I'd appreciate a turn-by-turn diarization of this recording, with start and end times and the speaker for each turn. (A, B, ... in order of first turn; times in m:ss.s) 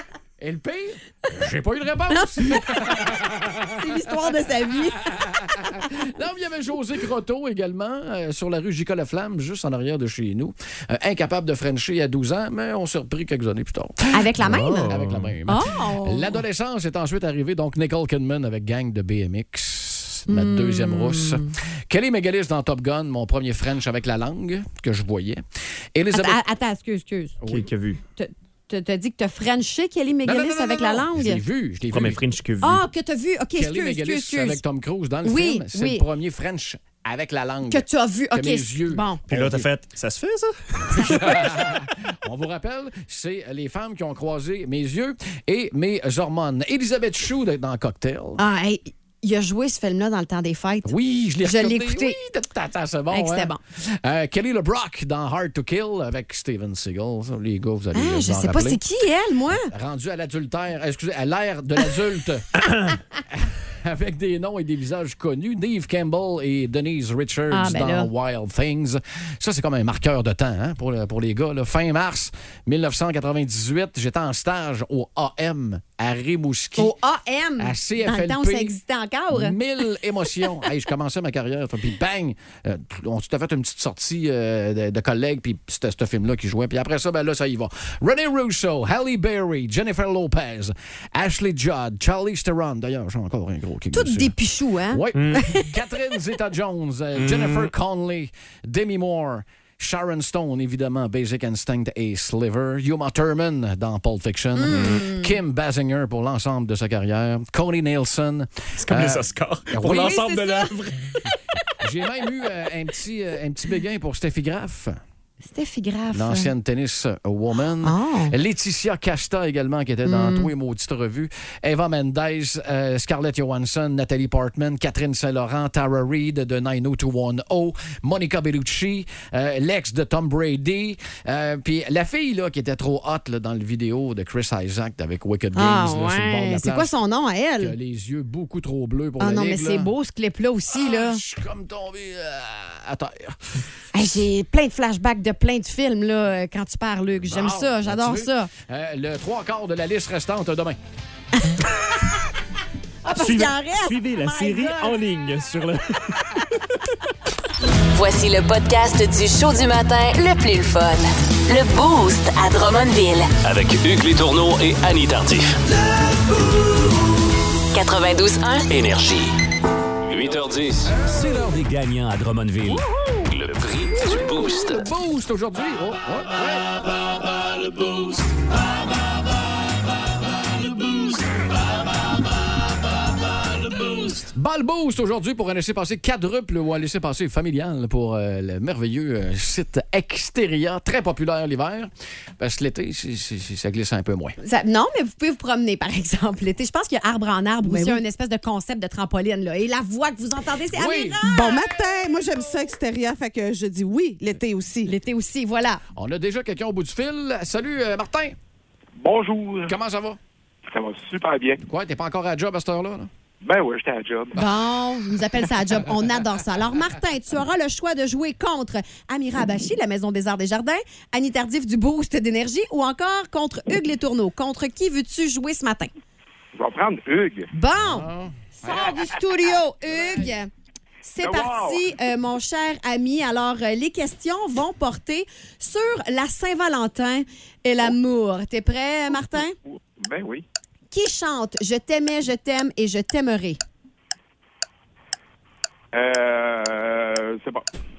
0:00.4-0:03.8 A
0:02.1-0:03.1 B
0:03.7-0:05.8 B
0:05.0-0:25.4 A
0:14.1-0:14.9 B
0:14.4-0:15.3 C
0:15.4-0:16.4 B
0:20.3-0:21.5 B
0:25.9-0:26.4 A
0:26.1-0:27.4 B
0:27.4-0:28.0 C
0:28.2-0:31.4 B
0:30.2-0:32.2 A
0:31.9-0:32.8 C
0:32.6-0:34.6 B
0:33.6-0:39.7 A
0:35.2-0:36.0 B
0:37.7-0:39.2 B
0:39.3-0:41.3 C
0:41.0-0:48.4 A
0:41.0-0:41.5 B
0:48.4-0:52.2 B
0:50.8-0:58.8 A
0:53.1-0:53.6 B
0:57.9-0:59.7 B
0:59.7-1:02.6 A
1:03.3-1:16.9 A
1:07.5-1:08.1 B
1:16.8-1:19.6 B
1:17.6-1:18.8 A
1:19.3-1:34.3 A
1:33.9-1:35.7 B
1:34.9-1:50.4 A
1:35.1-1:35.4 C
1:37.2-1:37.7 C
1:44.6-1:45.3 B
1:44.7-1:45.0 C
1:48.8-1:51.1 C
1:50.1-1:50.7 B
1:51.8-1:55.0 A
1:55.4-1:56.5 B
1:56.1-2:16.9 A
1:57.8-1:58.3 B
2:00.0-2:00.5 B
2:15.5-2:17.7 B
2:17.6-2:19.9 A
2:19.2-2:21.2 B
2:20.7-2:23.4 A
2:23.9-2:28.5 B
2:27.2-2:30.8 A
2:31.4-2:32.0 B
2:33.0-2:35.0 B
2:33.1-2:36.0 C
2:37.9-2:43.3 D
2:43.4-2:45.6 E
2:47.7-2:48.7 D
2:48.7-2:49.3 E
2:50.1-2:54.9 E
2:54.5-2:56.7 A
2:57.8-2:58.1 E
3:04.0-3:14.4 A
3:14.4-3:21.6 B
3:17.6-3:18.0 F
3:20.7-3:22.3 A
3:21.2-3:24.9 F
3:24.8-3:25.8 B
3:26.0-3:28.4 A
3:29.0-3:29.7 G
3:29.7-3:30.2 A
3:30.7-3:31.6 G
3:31.6-3:33.1 A
3:33.4-3:34.4 G
3:34.3-3:45.9 B
3:46.6-3:47.5 G
3:47.5-3:48.0 B
3:47.8-3:49.0 A
3:48.6-3:50.5 B
3:51.0-3:59.6 B
3:51.2-3:51.8 G
3:59.6-4:00.4 G
4:00.9-4:03.6 B
4:05.9-4:07.6 G